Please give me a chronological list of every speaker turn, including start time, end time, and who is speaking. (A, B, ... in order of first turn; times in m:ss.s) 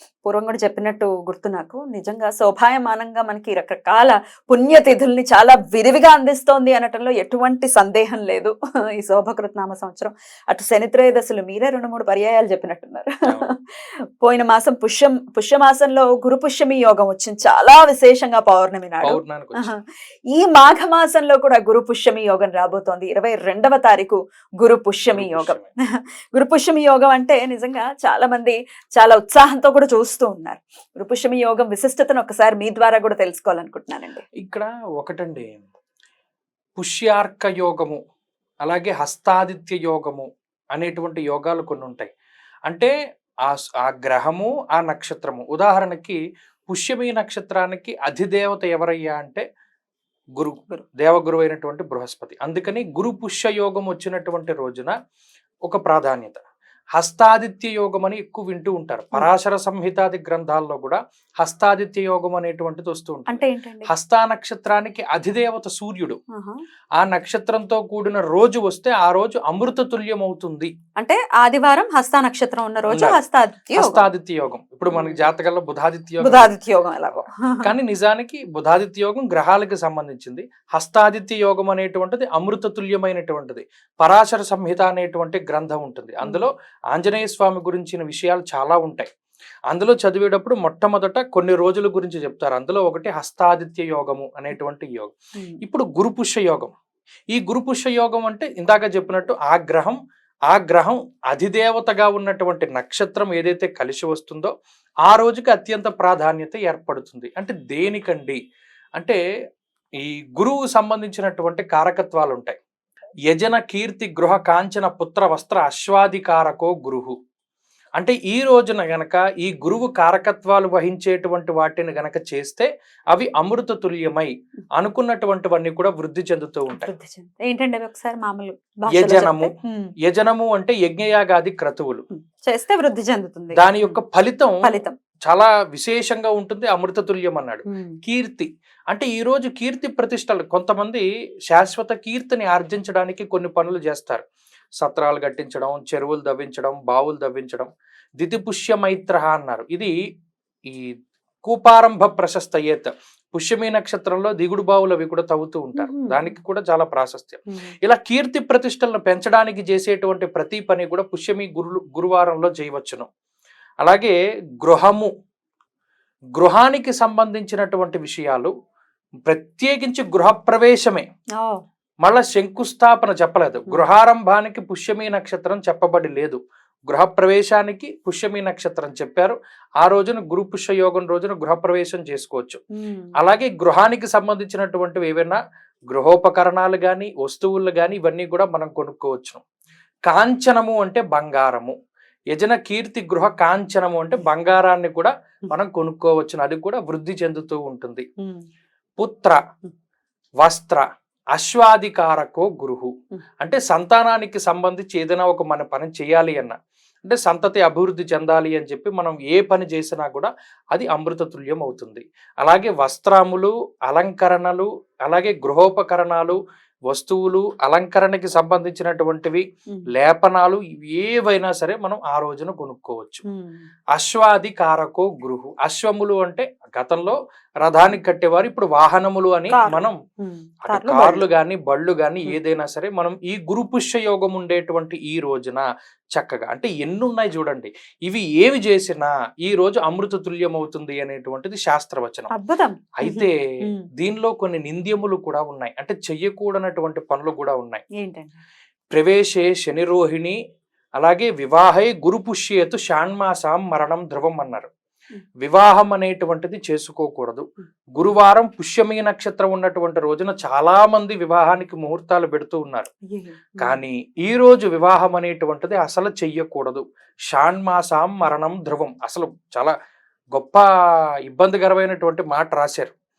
0:00.2-0:19.8 A
0:19.0-0:19.7 B
0:20.3-0:34.2 A
0:25.1-0:25.7 B
0:34.4-0:35.7 B
0:36.8-0:38.0 B
0:38.6-0:42.1 B
0:42.7-0:42.9 B
0:43.5-0:46.2 B
0:46.7-0:49.4 B
0:50.4-0:54.9 B
0:55.7-0:56.4 B
0:57.0-1:06.2 B
1:03.3-1:03.9 A
1:06.3-1:06.6 A
1:07.0-1:10.7 B
1:11.0-1:14.1 A
1:12.9-1:13.2 B
1:13.8-1:16.5 B
1:14.9-1:15.2 A
1:16.2-1:17.7 A
1:17.1-1:29.1 B
1:29.7-1:36.7 B
1:37.3-1:40.0 B
1:40.5-1:44.5 B
1:45.1-1:48.4 B
1:50.0-1:52.6 B
1:53.3-1:57.2 B
1:58.0-2:06.9 B
2:06.7-2:09.9 A
2:08.9-2:09.5 B
2:10.0-2:12.1 B
2:12.1-2:14.0 A
2:13.6-2:14.6 B
2:14.6-2:15.0 A
2:15.3-2:24.2 B
2:17.7-2:18.0 A
2:24.8-2:27.7 B
2:28.2-2:29.9 B
2:30.7-2:30.9 B
2:31.4-2:43.1 B
2:35.8-2:36.3 A
2:43.8-2:45.1 B
2:46.4-2:48.5 B
2:49.3-2:51.0 B
2:52.0-2:56.4 B
2:56.9-3:02.6 B
3:02.8-3:03.1 A
3:03.2-3:05.4 B
3:05.9-3:09.4 B
3:10.1-3:11.8 B
3:12.3-3:18.1 B
3:19.0-3:19.4 B
3:20.4-3:20.8 B
3:21.4-3:22.9 B
3:23.4-3:36.4 B
3:36.9-3:39.4 B
3:40.0-3:43.2 B
3:43.3-3:43.6 A
3:44.0-3:50.0 B
3:49.5-3:51.2 A
3:50.6-3:55.6 B
3:56.2-4:02.3 B
4:02.3-4:03.9 A
4:03.0-4:03.4 B
4:04.0-4:07.8 B
4:08.0-4:08.4 A
4:08.9-4:10.4 B
4:11.0-4:14.7 B
4:15.4-4:17.4 B
4:18.0-4:22.9 B
4:23.1-4:23.8 A
4:23.6-4:29.7 B
4:30.4-4:30.6 B
4:31.3-4:32.9 B